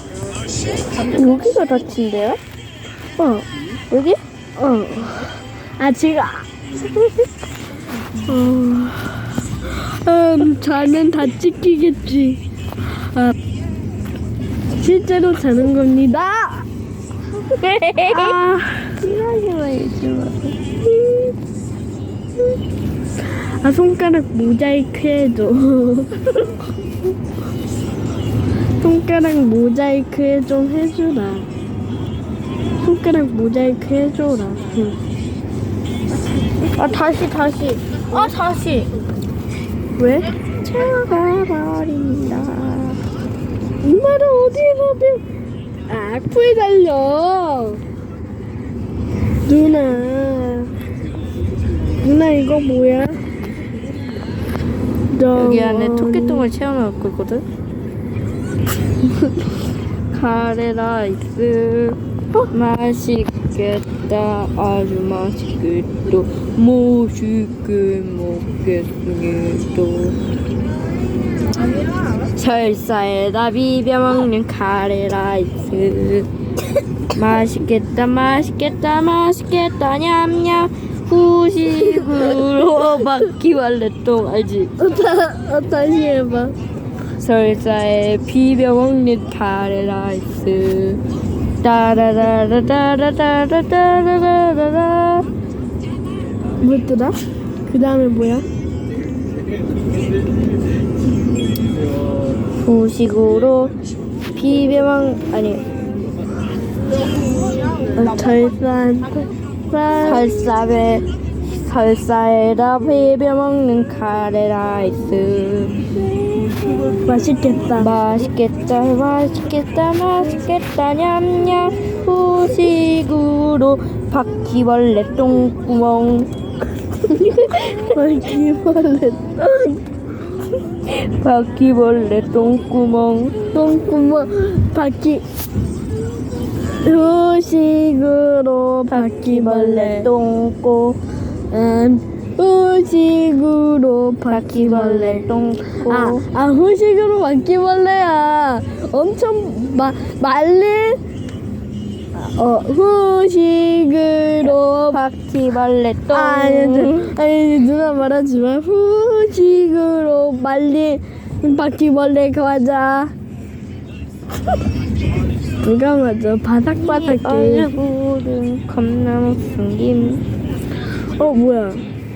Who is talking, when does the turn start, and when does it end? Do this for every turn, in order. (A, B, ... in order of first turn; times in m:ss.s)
0:01.0-0:02.4 A
0:03.2-0:03.4 B
0:03.9-0:04.2 A
0:04.6-0:06.5 B
0:08.2-0:13.3 B
0:14.8-0:16.7 B
0:17.6-0:18.4 A
0:18.1-0:19.0 B
0:19.0-0:20.6 A
0:21.0-0:21.3 B
0:23.2-0:26.2 B
0:28.8-0:31.5 B
0:32.8-0:35.0 B
0:36.8-0:38.9 A
0:40.0-0:40.3 B
0:40.5-0:43.0 A
0:43.8-0:45.2 B
0:45.9-0:47.8 B
0:49.4-0:50.7 B
0:52.0-0:53.2 B
0:55.1-0:56.5 B
0:55.3-0:57.4 A
1:00.1-1:10.2 A
1:12.3-1:16.3 A
1:17.1-1:24.7 A
1:24.8-1:26.5 B
1:27.2-1:31.0 A
1:31.6-1:35.3 A
1:36.6-1:38.4 B
1:42.6-1:43.8 A
1:44.3-1:45.7 A
1:47.9-1:50.3 B
1:50.0-1:55.8 A
1:56.7-1:57.9 B
1:57.8-2:06.3 A
2:07.1-2:07.9 A
2:07.8-2:09.8 B
2:10.8-2:13.4 A
2:13.5-2:15.2 B
2:16.7-2:20.1 B
2:18.9-2:21.0 A
2:21.5-2:25.3 B
2:24.3-2:26.2 A
2:25.9-2:31.0 B
2:32.1-2:35.0 B
2:34.9-2:37.1 A
2:36.1-2:43.1 B
2:45.6-2:47.7 B
2:46.8-2:50.2 A
2:51.0-2:51.8 B